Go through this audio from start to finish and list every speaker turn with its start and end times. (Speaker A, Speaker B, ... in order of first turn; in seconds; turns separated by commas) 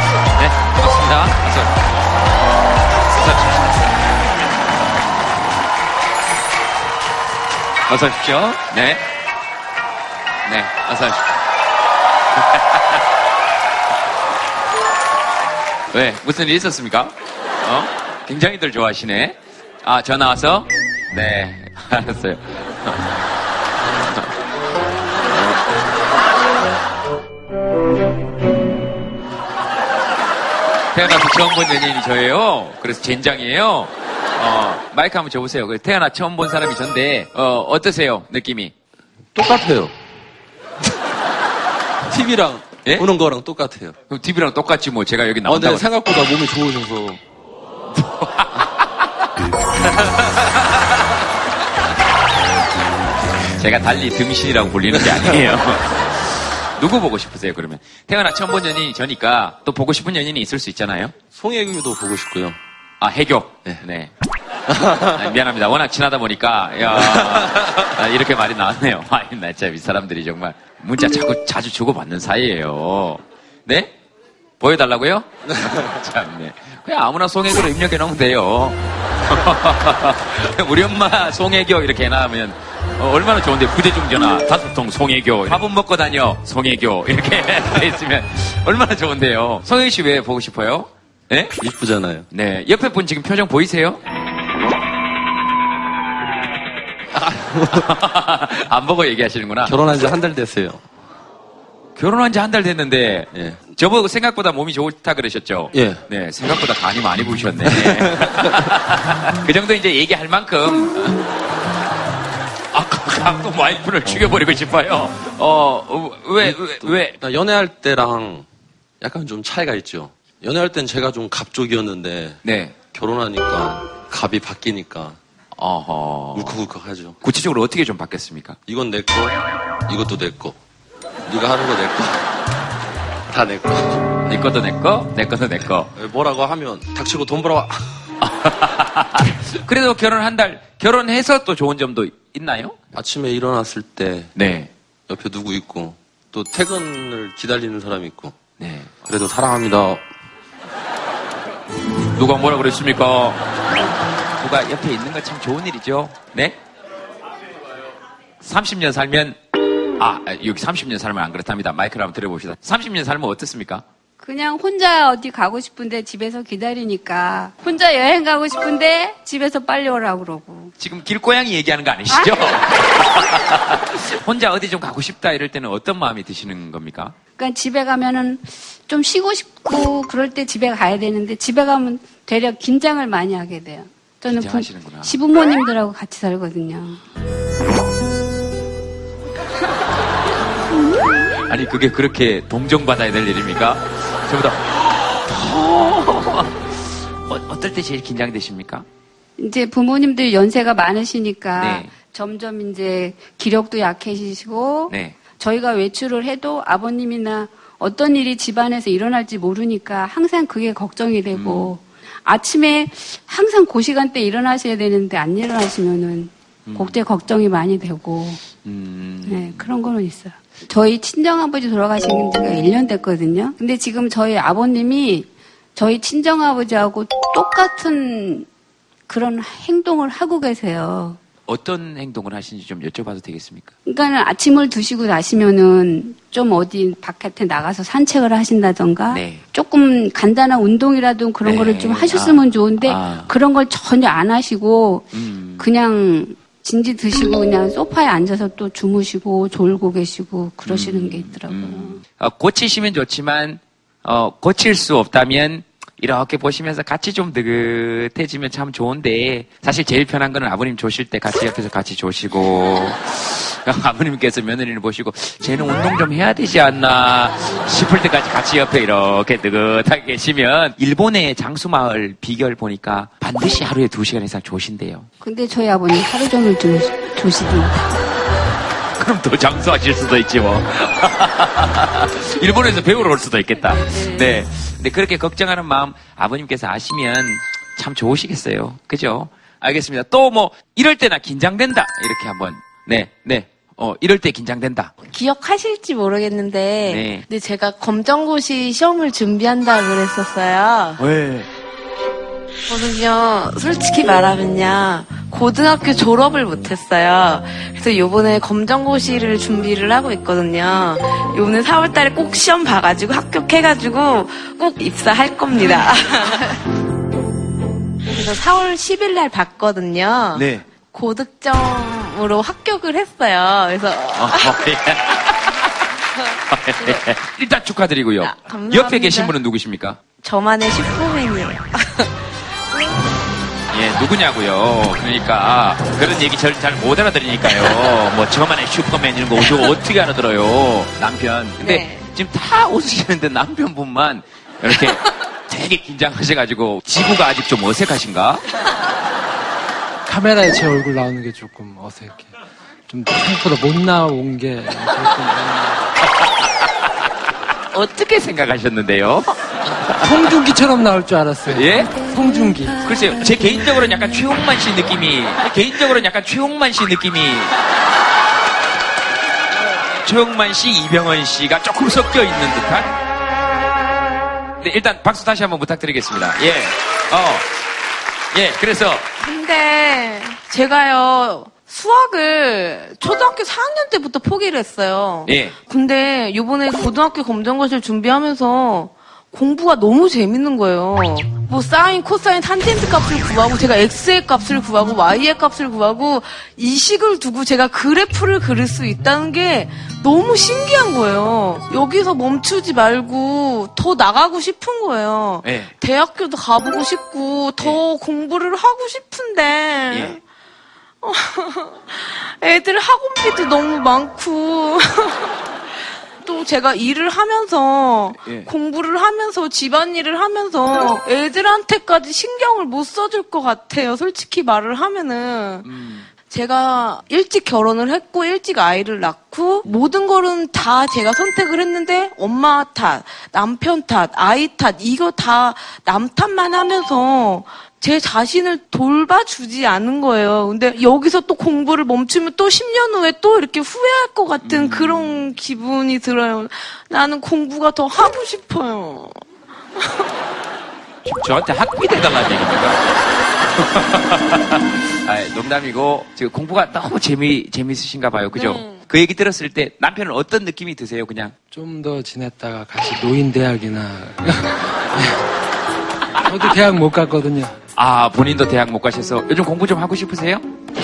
Speaker A: 0.3-1.7, Speaker A: 3.1-3.9, Speaker A: 7.9-9.0, Speaker A: 10.4-11.3, Speaker A: 12.3-13.0, Speaker A: 15.9-23.1, Speaker A: 24.0-24.3, Speaker A: 25.2-25.6, Speaker A: 30.9-38.7, Speaker B: 39.3-39.9, Speaker B: 42.1-44.0, Speaker A: 44.1-45.9, Speaker B: 45.5-47.2, Speaker A: 47.9-48.9, Speaker A: 53.6-61.1, Speaker B: 54.9-55.4, Speaker B: 61.3-62.6, Speaker A: 63.0-64.1, Speaker B: 64.7-65.2, Speaker A: 65.2-74.0, Speaker B: 66.8-67.8, Speaker A: 74.6-91.6, Speaker B: 91.6-92.3, Speaker A: 92.3-94.0, Speaker B: 97.2-97.9, Speaker A: 97.7-99.8, Speaker B: 99.7-100.8, Speaker A: 102.0-111.2, Speaker B: 103.3-103.6, Speaker B: 105.7-106.0, Speaker B: 107.7-108.7, Speaker A: 112.7-117.2, Speaker B: 116.4-118.5, Speaker B: 119.0-125.2, Speaker A: 122.4-122.8, Speaker A: 125.5-126.6, Speaker B: 126.3-127.2, Speaker A: 127.2-128.6, Speaker B: 128.7-130.6, Speaker B: 131.3-132.2, Speaker B: 133.3-134.0, Speaker A: 134.3-135.9, Speaker B: 135.6-137.9, Speaker A: 138.2-142.8, Speaker B: 142.9-144.3, Speaker A: 144.3-144.7, Speaker B: 145.1-148.4, Speaker A: 148.6-148.9, Speaker B: 149.0-150.1, Speaker A: 152.1-153.5, Speaker A: 154.4-156.6, Speaker A: 158.4-159.4, Speaker A: 160.0-163.8, Speaker C: 164.2-170.7, Speaker A: 170.8-177.2, Speaker C: 172.1-172.4, Speaker C: 177.4-187.0, Speaker A: 184.3-185.1, Speaker A: 191.5-194.6, Speaker A: 195.2-198.9, Speaker C: 199.4-218.4, Speaker A: 201.6-201.9, Speaker A: 204.9-205.2, Speaker A: 211.3-211.7, Speaker A: 216.7-217.0, Speaker A: 218.6-219.7, Speaker C: 219.2-228.5, Speaker C: 229.1-231.2, Speaker A: 231.5-233.7, Speaker C: 233.9-252.0, Speaker A: 239.1-239.4, Speaker A: 241.4-243.3, Speaker A: 245.1-245.7, Speaker A: 250.7-275.1, Speaker C: 275.2-277.8, Speaker A: 279.0-294.9, Speaker D: 295.0-301.0, Speaker A: 296.9-297.2, Speaker A: 301.0-301.5, Speaker D: 302.7-316.5, Speaker D: 318.1-324.6, Speaker A: 320.3-320.6, Speaker A: 324.2-325.4, Speaker A: 326.5-330.0, Speaker D: 328.2-329.3, Speaker D: 330.2-332.1, Speaker A: 333.7-348.4, Speaker D: 341.6-342.0, Speaker E: 350.1-352.3, Speaker E: 352.9-355.9, Speaker A: 356.2-356.5, Speaker A: 357.7-359.3, Speaker E: 359.9-362.8, Speaker A: 361.5-361.9, Speaker A: 362.8-367.5, Speaker A: 370.0-372.9, Speaker A: 374.6-377.6, Speaker A: 378.3-379.1, Speaker D: 379.2-410.2, Speaker A: 385.2-385.6, Speaker A: 405.4-405.7, Speaker A: 409.9-410.2, Speaker D: 411.0-415.3, Speaker D: 416.2-425.7, Speaker A: 418.1-418.5, Speaker A: 425.6-426.1, Speaker D: 426.2-449.2, Speaker A: 444.4-445.3, Speaker A: 451.0-452.8, Speaker A: 453.6-461.4, Speaker D: 458.3-458.8, Speaker E: 461.5-465.2, Speaker E: 466.2-467.6, Speaker A: 467.8-470.4